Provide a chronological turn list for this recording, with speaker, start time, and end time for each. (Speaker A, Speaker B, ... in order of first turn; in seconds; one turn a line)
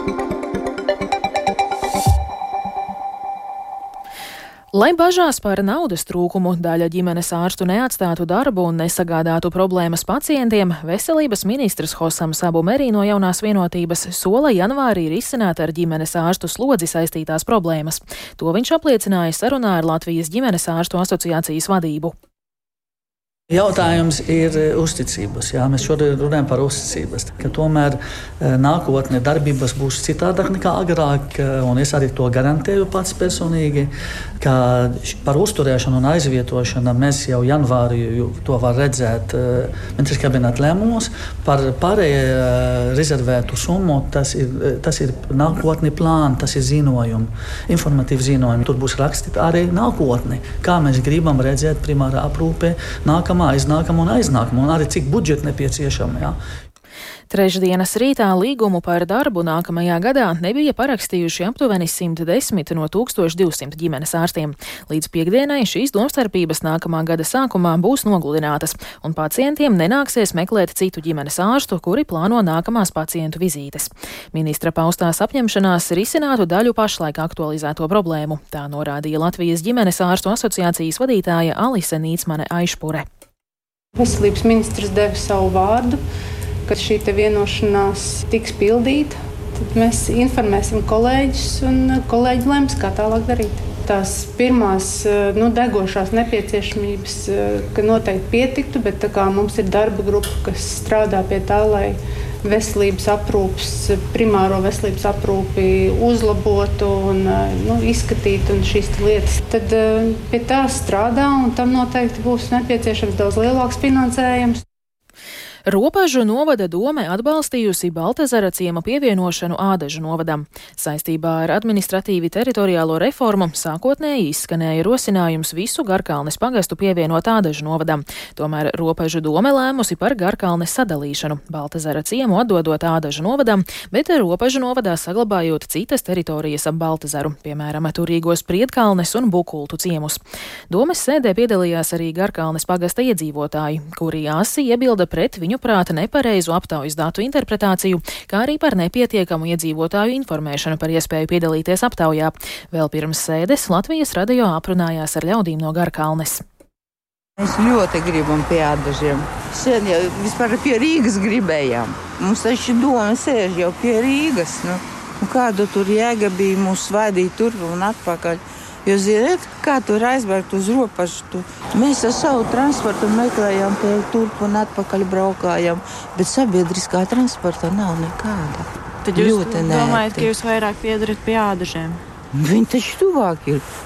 Speaker A: 4.7-22.1
Speaker B: 23.5-56.4
Speaker A: 57.3-83.0
Speaker C: 84.0-86.0
Speaker C: 86.7-114.6
Speaker A: 115.7-156.4
Speaker D: 157.4-180.3
Speaker E: 179.1-182.0
Speaker D: 182.3-183.6